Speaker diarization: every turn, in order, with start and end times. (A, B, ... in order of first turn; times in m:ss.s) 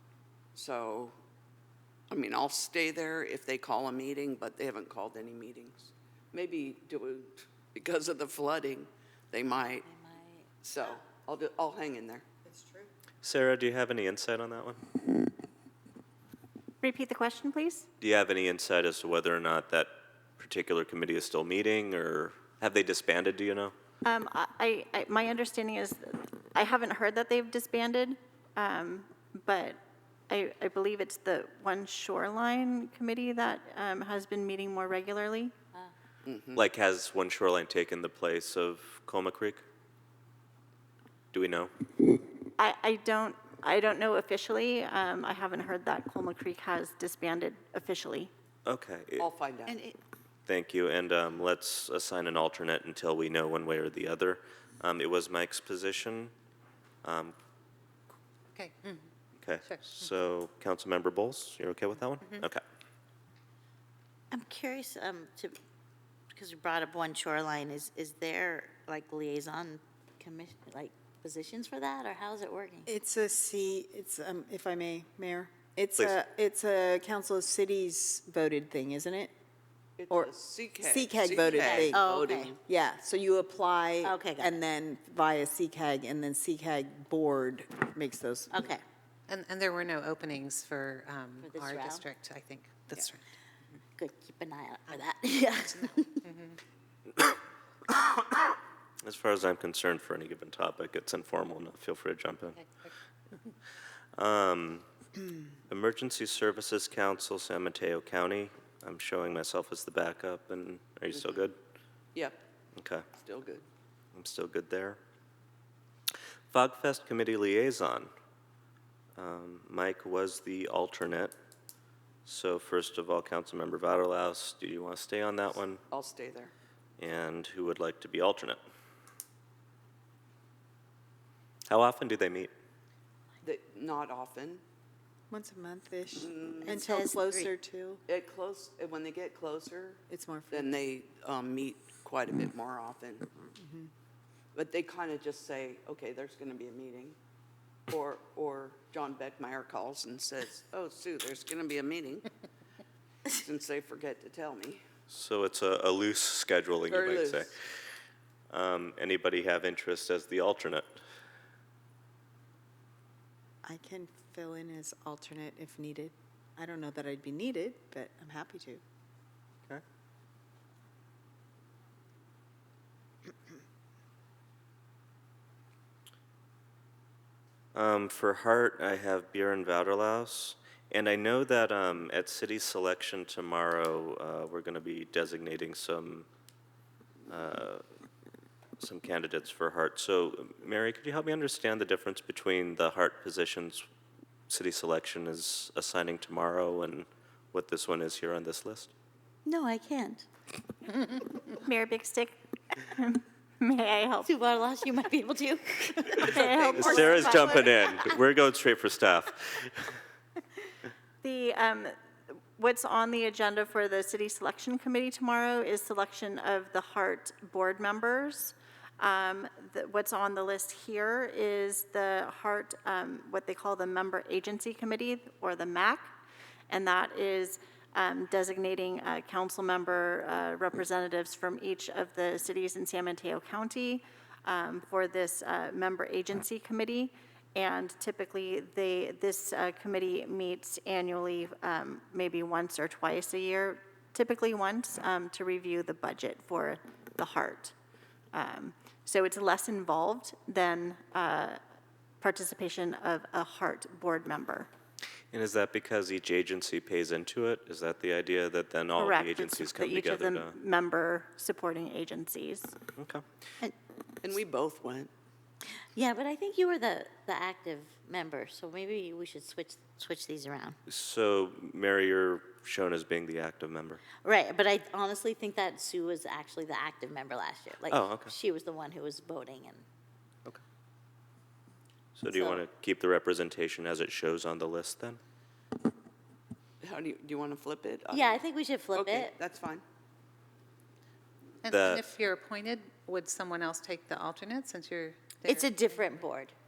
0:00.5-0:01.1 A
0:02.1-0:09.8 A
0:09.8-0:10.5 B
0:10.6-0:12.2 A
0:12.5-0:12.9 C
0:13.2-0:14.8 D
0:16.8-0:17.9 E
0:18.0-0:23.7 D
0:24.0-0:35.5 E
0:36.2-0:36.6 A
0:36.6-0:39.6 D
0:41.3-0:41.7 D
0:42.6-0:48.3 E
0:48.6-0:49.3 D
0:49.2-0:49.8 A
0:49.7-0:50.0 B
0:50.5-0:56.3 D
0:57.0-0:57.3 D
0:58.5-0:59.1 F
0:59.4-1:02.6 D
0:59.6-1:00.1 F
1:04.3-1:05.6 B
1:06.3-1:12.9 B
1:12.8-1:19.3 C
1:20.0-1:22.6 A
1:20.1-1:22.0 C
1:21.5-1:22.6 B
1:22.6-1:28.7 C
1:24.0-1:24.6 B
1:28.5-1:28.8 B
1:29.3-1:33.2 F
1:31.4-1:32.0 B
1:34.0-1:36.2 B
1:35.9-1:36.6 F
1:39.0-1:42.5 D
1:42.6-1:42.9 F
1:44.2-1:44.8 D
1:45.7-1:51.5 D
1:51.1-1:51.4 A
1:52.8-1:53.0 D
1:53.2-1:53.6 A
1:54.1-1:55.0 D
1:56.5-1:58.1 D
1:59.2-2:01.3 D
2:02.2-2:05.8 D
2:05.9-2:06.5 A
2:07.0-2:08.6 D
2:11.7-2:12.5 D
2:13.4-2:14.6 A
2:15.3-2:18.0 C
2:16.2-2:16.8 A
2:16.6-2:17.5 B
2:18.1-2:23.3 A
2:20.1-2:20.7 C
2:23.5-2:23.9 C
2:24.5-2:27.2 A
2:27.9-2:32.3 A
2:33.3-2:34.8 A
2:35.1-2:37.4 D
2:36.9-2:37.5 A
2:38.5-2:40.8 D
2:43.6-2:48.8 C
2:57.7-3:06.3 D
3:07.3-3:07.8 D
3:08.8-3:13.8 D
3:14.5-3:18.9 D
3:19.4-3:20.2 B
3:21.4-3:24.3 E
3:24.2-3:27.7 B
3:26.2-3:28.0 E
3:26.7-3:29.8 D
3:31.2-3:31.9 E
3:32.6-3:46.1 E
3:46.7-4:07.7 E
4:08.3-4:11.6 E
4:12.2-4:14.7 E
4:15.3-4:20.5 D
4:19.0-4:22.8 E
4:23.0-4:23.2 D
4:24.2-4:25.1 A
4:25.9-4:30.8 B
4:30.9-4:34.0 D
4:34.2-4:39.8 B
4:37.9-4:38.3 D
4:42.2-4:45.2 D
4:42.3-4:42.6 B
4:46.8-4:48.4 A
4:48.1-4:49.4 B
4:48.9-4:49.8 A
4:51.6-4:55.7 F
4:51.7-4:52.0 D
4:55.4-4:56.5 B